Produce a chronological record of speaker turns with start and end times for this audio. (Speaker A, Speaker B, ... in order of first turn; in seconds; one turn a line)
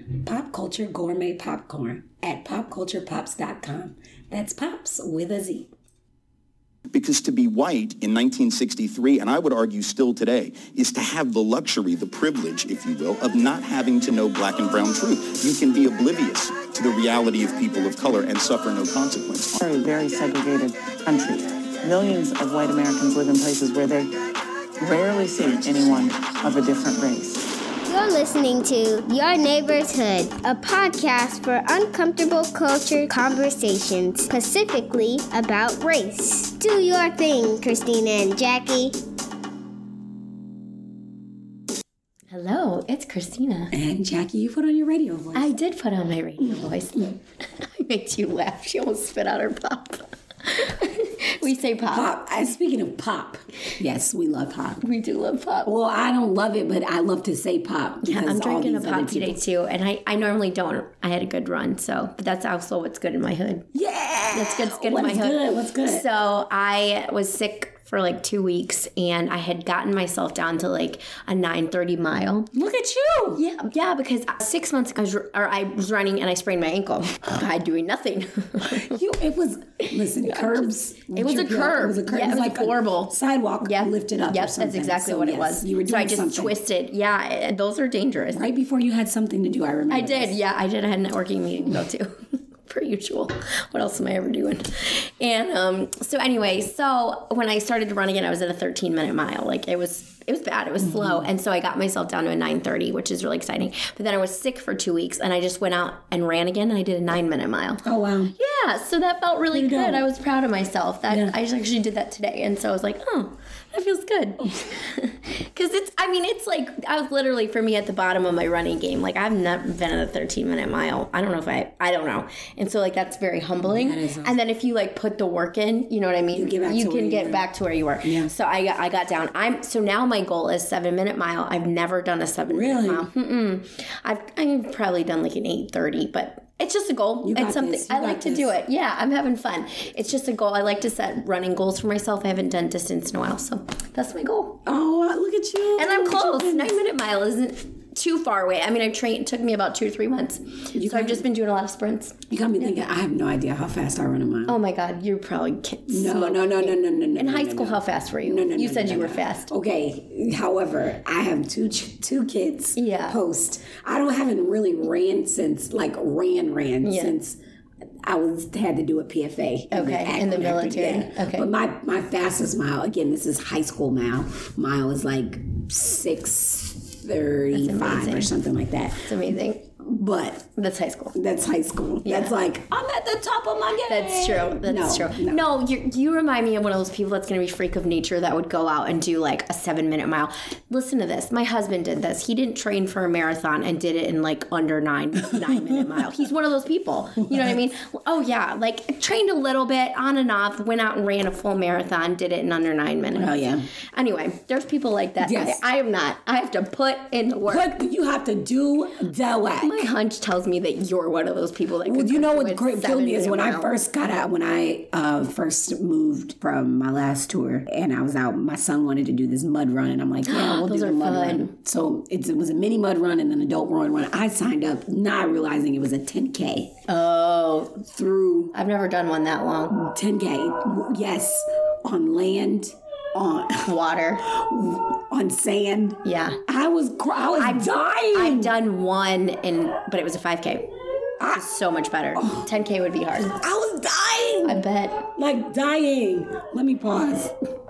Speaker A: 0.2-5.7
Speaker B: 6.9-19.6
Speaker C: 19.6-24.1
Speaker C: 24.8-27.5
Speaker D: 27.9-39.0
Speaker E: 42.3-43.7
Speaker A: 43.7-45.5
Speaker E: 45.3-52.1
Speaker A: 51.9-54.8
Speaker E: 54.8-55.7
Speaker A: 55.6-59.4
Speaker E: 58.1-63.7
Speaker A: 63.7-66.1
Speaker E: 64.3-72.5
Speaker A: 72.5-73.4
Speaker E: 73.3-79.0
Speaker A: 78.7-86.6
Speaker E: 80.2-88.4
Speaker A: 88.3-90.4
Speaker E: 89.9-107.8
Speaker A: 100.8-101.2
Speaker A: 107.8-108.3
Speaker E: 108.4-144.6
Speaker A: 109.5-110.0
Speaker A: 111.1-111.3
Speaker A: 123.6-124.4
Speaker A: 126.3-127.5
Speaker A: 128.0-128.3
Speaker A: 132.5-133.1
Speaker A: 137.2-138.6
Speaker A: 144.7-146.7
Speaker E: 145.8-152.2
Speaker A: 150.7-151.3
Speaker A: 152.3-154.6
Speaker E: 154.5-159.5
Speaker A: 155.9-167.4
Speaker E: 162.8-163.2
Speaker E: 166.8-167.2
Speaker A: 168.0-179.1
Speaker E: 169.7-171.5
Speaker E: 177.5-178.3
Speaker E: 179.0-179.7
Speaker A: 179.8-180.5
Speaker E: 180.6-181.2
Speaker A: 181.1-185.4
Speaker E: 182.1-182.3
Speaker E: 183.9-203.4
Speaker A: 195.3-195.9
Speaker A: 203.1-203.7
Speaker E: 203.9-207.7
Speaker A: 205.2-205.6
Speaker A: 207.5-209.9
Speaker E: 209.6-213.7
Speaker A: 211.9-226.8
Speaker E: 220.3-221.5
Speaker E: 226.9-227.8
Speaker A: 227.8-228.6
Speaker E: 228.5-229.8
Speaker A: 229.7-233.7
Speaker E: 233.7-234.3
Speaker A: 234.2-238.6
Speaker E: 236.0-236.4
Speaker E: 237.4-240.7
Speaker A: 241.2-241.4
Speaker E: 241.3-243.4
Speaker A: 242.2-242.5
Speaker A: 243.3-247.3
Speaker E: 244.4-245.1